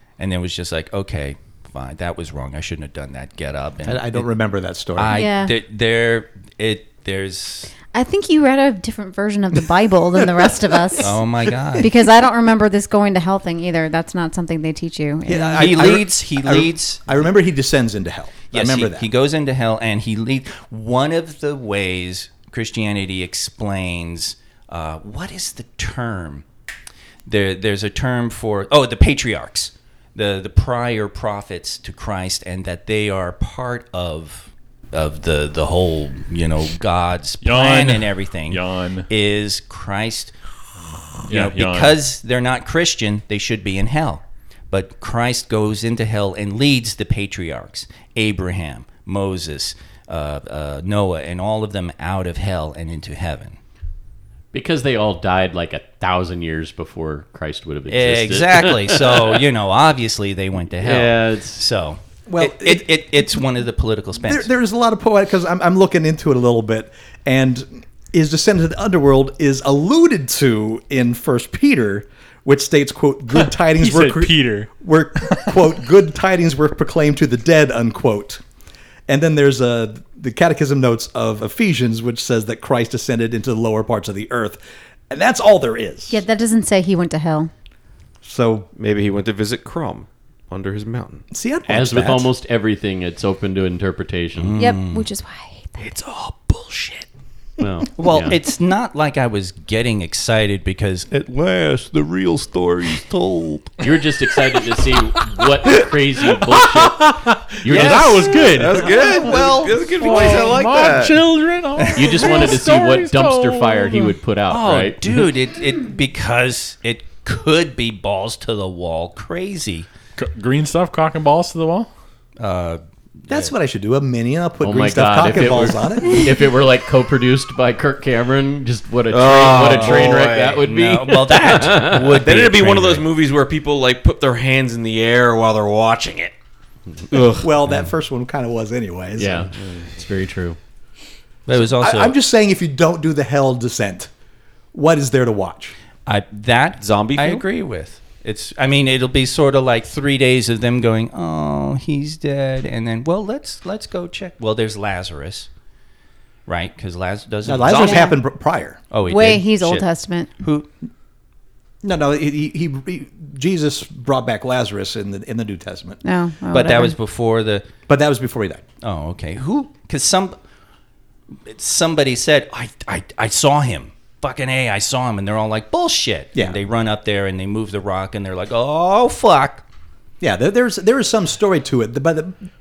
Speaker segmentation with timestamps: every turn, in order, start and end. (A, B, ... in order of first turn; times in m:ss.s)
0:00.2-0:04.3 A
0:03.8-0:05.2 B
0:05.0-0:07.7 A
0:05.1-0:05.6 C
0:07.9-0:11.2 C
0:11.0-0:11.9 A
0:11.8-0:15.7 C
0:15.2-0:19.1 B
0:15.6-0:17.0 A
0:18.5-0:26.4 A
0:27.3-0:40.3 A
0:37.4-0:39.1 D
0:41.3-0:53.6 A
0:41.3-0:42.0 D
0:54.5-0:59.4 E
0:57.9-1:04.5 A
1:00.8-1:01.6 E
1:02.3-1:03.2 B
1:04.2-1:18.4 B
1:13.4-1:14.7 D
1:19.1-1:26.2 B
1:26.1-1:27.5 C
1:28.2-1:28.7 B
1:28.8-1:31.2 F
1:31.3-1:32.3 B
1:31.7-1:34.6 E
1:34.4-1:35.1 A
1:34.6-1:35.8 C
1:35.8-1:37.0 F
1:37.6-1:38.4 E
1:38.0-1:43.7 A
1:43.8-1:48.9 E
1:46.3-1:54.2 D
1:47.7-1:48.6 A
1:48.5-1:51.2 F
1:51.8-1:52.2 A
1:52.0-1:55.2 E
1:54.5-1:59.9 A
2:00.2-2:01.9 D
2:02.4-2:03.5 A
2:03.3-2:06.3 B
2:04.6-2:12.2 E
2:09.1-2:10.6 F
2:10.6-2:13.1 A
2:11.9-2:16.3 F
2:17.1-2:17.5 F
2:17.4-2:19.5 B
2:19.2-2:20.6 E
2:21.5-2:22.2 A
2:21.5-2:24.1 B
2:24.7-2:25.8 B
2:26.1-2:35.5 A
2:26.8-2:27.4 F
2:36.5-2:38.1 A
2:37.4-2:38.8 B
2:37.7-2:38.2 C
2:38.9-2:39.9 A
2:39.1-2:40.3 C
2:40.4-2:40.7 A
2:41.8-2:46.0 B
2:46.0-2:47.0 C
2:46.5-2:47.7 A
2:47.9-2:48.6 B
2:48.8-2:50.4 A
2:51.5-2:59.6 A
3:00.2-3:02.4 B